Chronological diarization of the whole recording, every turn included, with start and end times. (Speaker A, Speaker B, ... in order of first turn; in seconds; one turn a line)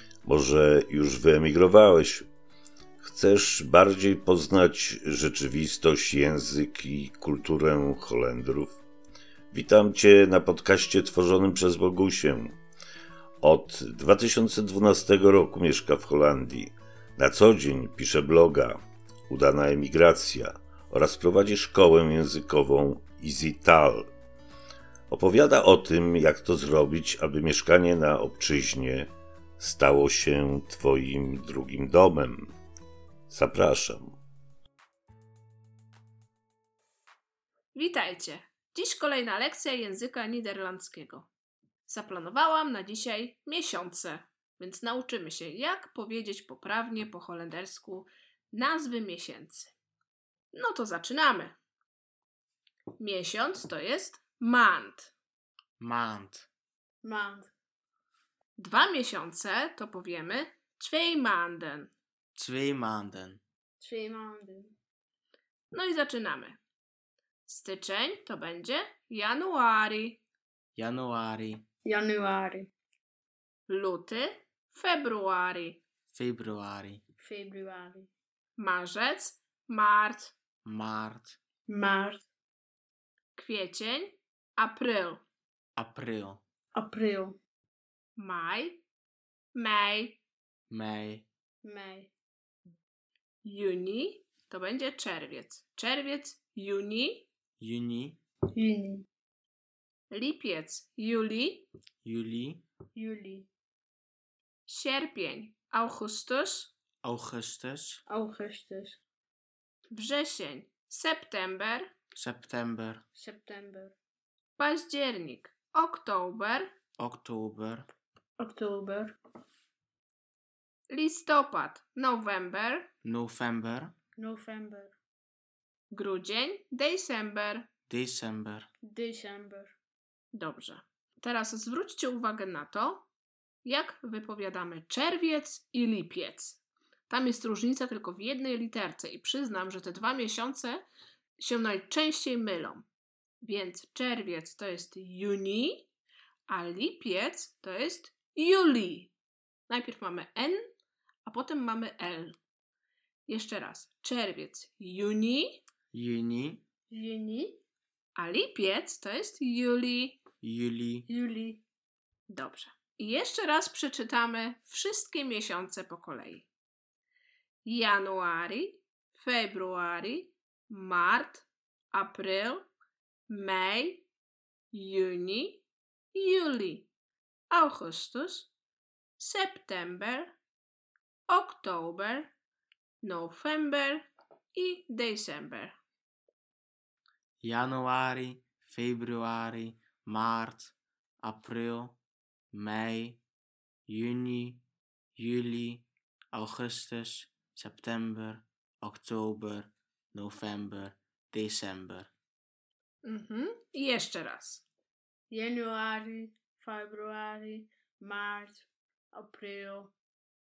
Speaker A: 0.2-2.2
Speaker A: 3.0-8.8
Speaker A: 9.5-12.6
Speaker A: 13.4-24.1
Speaker A: 25.1-32.5
Speaker A: 33.3-34.1
Speaker B: 37.7-41.3
Speaker B: 41.9-49.7
Speaker B: 50.5-51.6
Speaker B: 53.0-55.1
Speaker C: 55.8-56.5
Speaker D: 57.0-57.5
Speaker B: 58.6-61.9
Speaker C: 62.4-63.4
Speaker D: 63.8-64.7
Speaker B: 65.7-66.6
Speaker B: 67.5-70.2
Speaker C: 70.7-71.6
Speaker D: 71.8-72.7
Speaker B: 73.7-75.8
Speaker C: 76.1-77.0
Speaker D: 77.2-78.1
Speaker B: 78.6-80.3
Speaker C: 80.6-81.4
Speaker D: 81.7-82.3
Speaker B: 83.3-85.2
Speaker C: 85.8-86.4
Speaker D: 86.7-87.4
Speaker B: 88.2-88.8
Speaker B: 89.5-90.2
Speaker C: 90.7-91.2
Speaker D: 91.6-92.1
Speaker B: 93.4-97.3
Speaker C: 97.6-98.2
Speaker D: 98.5-99.0
Speaker B: 100.1-101.7
Speaker C: 102.0-102.6
Speaker D: 102.9-103.5
Speaker B: 104.7-106.7
Speaker C: 107.0-108.0
Speaker D: 108.1-109.0
Speaker B: 109.9-111.9
Speaker C: 112.2-113.0
Speaker D: 113.1-113.9
Speaker B: 114.6-116.7
Speaker C: 117.0-117.9
Speaker D: 118.4-119.2
Speaker B: 120.9-122.9
Speaker C: 123.0-123.9
Speaker D: 124.2-124.9
Speaker B: 125.9-127.7
Speaker C: 127.9-128.7
Speaker D: 128.8-129.7
Speaker B: 130.3-133.1
Speaker B: 133.6-140.9
Speaker B: 141.4-142.9
Speaker B: 143.4-145.9
Speaker B: 146.5-149.1
Speaker B: 149.7-150.7
Speaker B: 151.2-152.4
Speaker B: 153.3-155.6
Speaker C: 155.9-156.6
Speaker D: 156.9-157.6
Speaker B: 158.2-160.2
Speaker C: 160.4-161.1
Speaker D: 161.1-161.6
Speaker B: 162.3-166.5
Speaker B: 167.7-172.7
Speaker B: 173.3-174.1
Speaker B: 174.7-176.9
Speaker B: 177.5-178.5
Speaker B: 179.2-180.3
Speaker B: 181.3-182.3
Speaker B: 183.0-185.8
Speaker C: 187.4-192.0
Speaker C: 192.5-193.2
Speaker C: 193.9-194.6
Speaker C: 195.2-202.1
Speaker B: 203.0-204.6
Speaker D: 205.3-209.9